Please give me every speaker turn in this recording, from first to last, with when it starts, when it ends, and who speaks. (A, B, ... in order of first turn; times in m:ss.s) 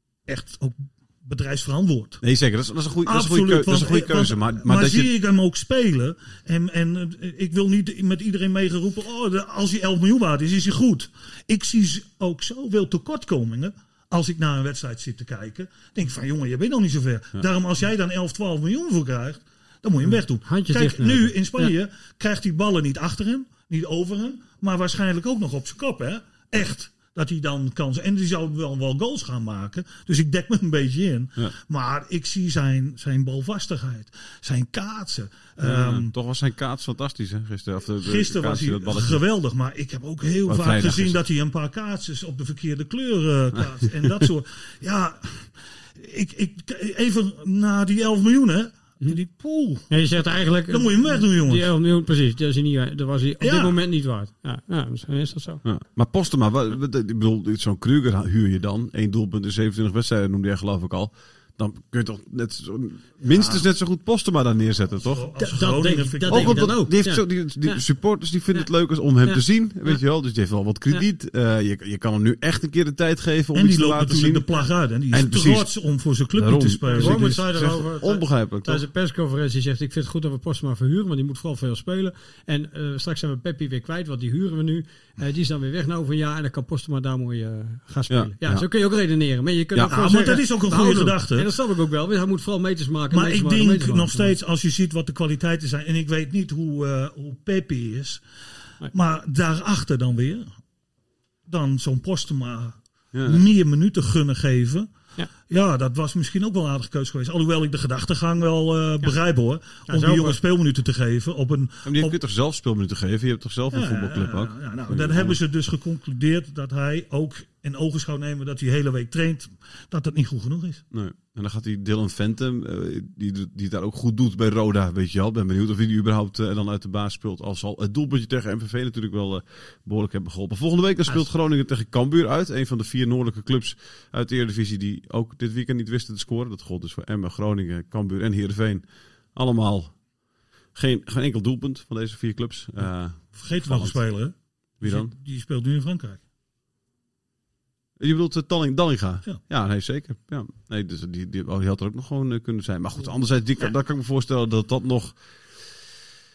0:00.3-0:02.2 A
0:02.2-0:05.1 B
0:03.0-0:36.1 A
0:20.1-0:21.7 C
0:35.6-0:39.2 B
0:38.0-0:49.9 A
0:40.5-0:41.2 B
0:49.9-0:55.6 C
0:50.7-0:51.7 A
0:53.4-0:53.8 A
0:55.6-1:05.3 B
1:03.3-1:03.6 A
1:05.0-1:06.7 A
1:05.4-1:07.8 C
1:06.3-1:14.5 B
1:13.5-1:17.4 A
1:15.1-1:15.7 B
1:16.4-1:18.8 B
1:16.9-1:34.4 C
1:28.1-1:28.6 B
1:29.7-1:30.0 B
1:29.9-1:31.5 A
1:33.1-1:38.2 A
1:38.9-1:40.5 A
1:41.5-1:44.9 A
1:43.1-1:43.4 B
1:45.5-1:52.2 A
1:49.9-1:50.4 C
1:51.9-1:55.4 B
1:53.7-2:00.8 A
2:00.9-2:20.0 B
2:20.8-2:24.0 B
2:23.3-2:26.2 A
2:24.8-2:25.1 B
2:28.0-2:35.2 B